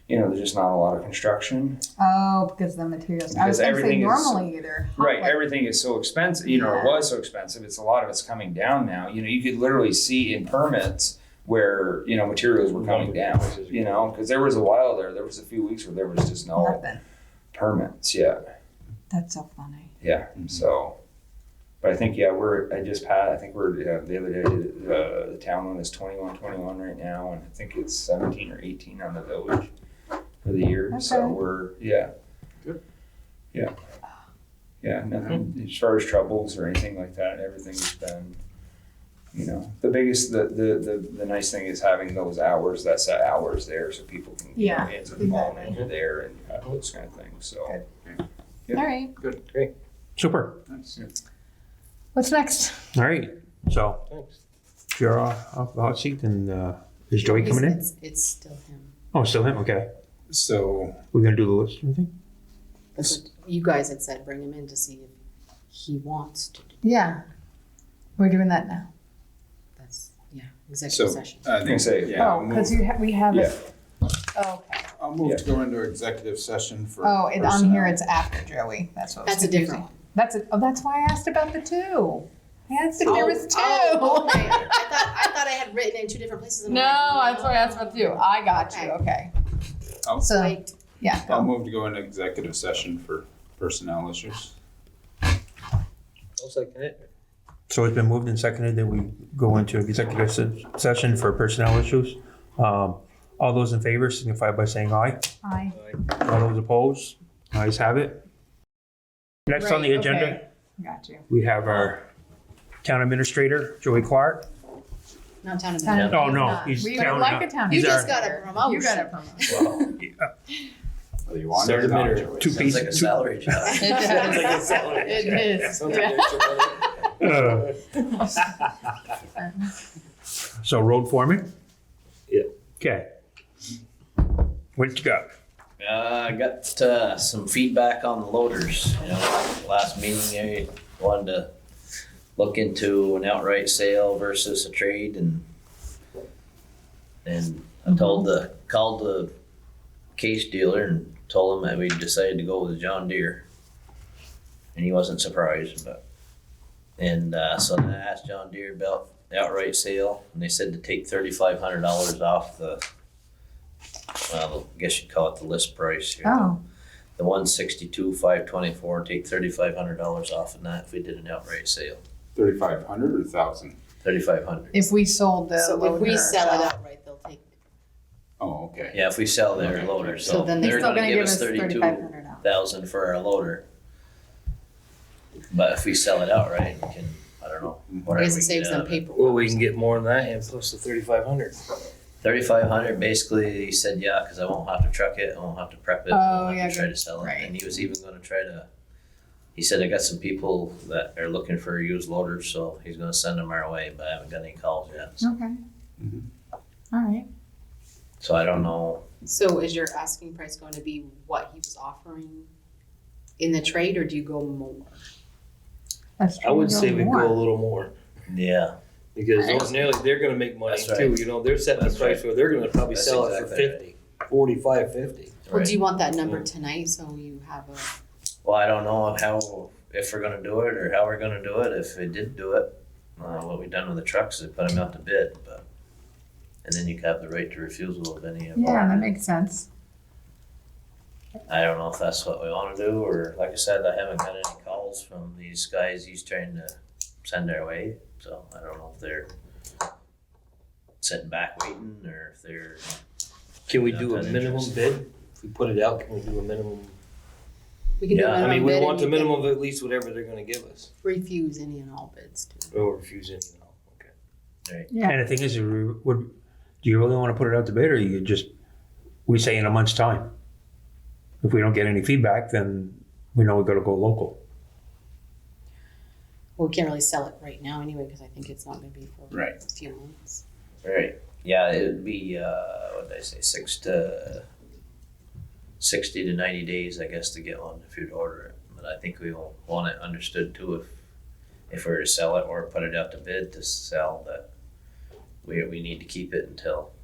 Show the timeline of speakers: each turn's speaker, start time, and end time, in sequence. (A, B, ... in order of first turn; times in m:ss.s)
0:00.1-0:01.8 A
0:02.0-0:05.4 B
0:03.3-0:04.4 A
0:05.0-0:16.8 A
0:06.5-0:07.1 B
0:12.7-0:14.1 C
0:16.6-0:17.0 B
0:17.5-0:18.4 A
0:19.1-0:19.9 B
0:20.0-0:21.0 A
0:21.8-0:29.7 A
0:30.4-0:32.1 A
0:30.9-0:31.4 B
0:34.8-0:38.4 A
0:39.3-0:47.8 A
0:44.6-0:45.7 B
0:48.7-0:49.1 B
0:49.3-0:49.7 C
0:50.2-0:50.6 D
0:50.7-0:51.0 E
0:52.2-0:52.9 B
0:52.9-0:54.1 D
0:54.1-0:54.4 C
0:55.0-0:57.8 D
0:57.2-0:58.9 F
0:59.1-0:59.9 D
1:00.3-1:01.0 E
1:01.1-1:02.1 D
1:03.0-1:05.2 F
1:05.7-1:06.8 F
1:06.8-1:07.2 B
1:08.2-1:08.9 B
1:09.8-1:11.5 F
1:10.9-1:12.8 E
1:11.6-1:12.3 A
1:12.2-1:13.6 B
1:14.3-1:14.9 B
1:15.0-1:18.0 E
1:17.0-1:25.3 B
1:19.2-1:19.9 F
1:23.0-1:29.0 F
1:26.7-1:29.3 B
1:30.2-1:30.8 F
1:30.2-1:31.5 B
1:31.3-1:34.5 E
1:36.4-1:37.1 C
1:37.7-1:45.3 D
1:45.4-1:45.8 B
1:45.7-1:46.0 C
1:46.1-1:48.2 D
1:49.5-1:50.4 D
1:49.5-1:51.3 B
1:51.3-1:52.0 D
1:52.8-1:54.5 D
1:55.4-1:56.8 F
1:55.8-1:59.9 B
1:55.9-1:56.3 G
1:56.1-1:58.1 D
1:57.7-1:59.7 F
1:59.5-1:59.8 G
2:00.0-2:00.3 D
2:01.3-2:03.0 E
2:01.5-2:02.4 C
2:01.9-2:03.8 D
2:02.5-2:04.0 G
2:03.7-2:04.7 B
2:03.8-2:06.2 F
2:03.8-2:08.7 C
2:05.4-2:06.5 B
2:07.2-2:07.7 D
2:10.6-2:11.5 D
2:12.8-2:13.1 D
2:14.8-2:15.3 D
2:15.8-2:21.5 G
2:22.4-2:25.4 G
2:27.2-2:29.3 G
2:30.2-2:33.4 G
2:34.8-2:36.0 G
2:37.0-2:42.8 G
2:44.3-2:46.6 G
2:46.2-2:46.6 B
2:47.2-2:52.0 G
2:52.4-2:53.8 E
2:54.0-2:54.9 G
2:54.7-2:56.7 B
2:55.6-2:57.5 F
2:58.4-2:59.0 E
2:58.9-3:03.6 G
2:59.6-3:00.9 F
3:00.5-3:02.4 B
3:05.5-3:09.0 G
3:08.1-3:09.8 F
3:09.2-3:11.8 C
3:12.2-3:18.7 G
3:16.1-3:17.6 B
3:19.6-3:25.3 G
3:25.2-3:25.6 B
3:26.9-3:27.3 B
3:28.2-3:29.0 G
3:29.2-3:32.5 F
3:33.4-3:35.0 F
3:36.2-3:37.4 B
3:36.4-3:37.9 C
3:38.3-3:38.7 G
3:39.2-3:45.4 C
3:40.7-3:43.9 G
3:45.5-3:45.8 G
3:45.5-3:47.9 F
3:46.2-3:46.4 C
3:48.4-3:55.6 G
3:56.6-3:59.1 G
3:58.6-3:59.7 B
4:01.5-4:09.3 G
4:11.0-4:12.8 G
4:13.7-4:17.0 C
4:13.7-4:14.8 G
4:18.0-4:19.5 F
4:18.1-4:18.5 G
4:18.4-4:20.9 C
4:21.0-4:22.9 F
4:22.7-4:24.1 C
4:24.9-4:25.2 B
4:25.0-4:26.3 D
4:26.8-4:28.5 D
4:29.3-4:30.3 D
4:31.4-4:34.4 D
4:36.6-4:40.4 F
4:40.8-4:44.5 G
4:45.8-4:50.9 G
4:51.7-4:54.5 G
4:55.4-4:56.9 G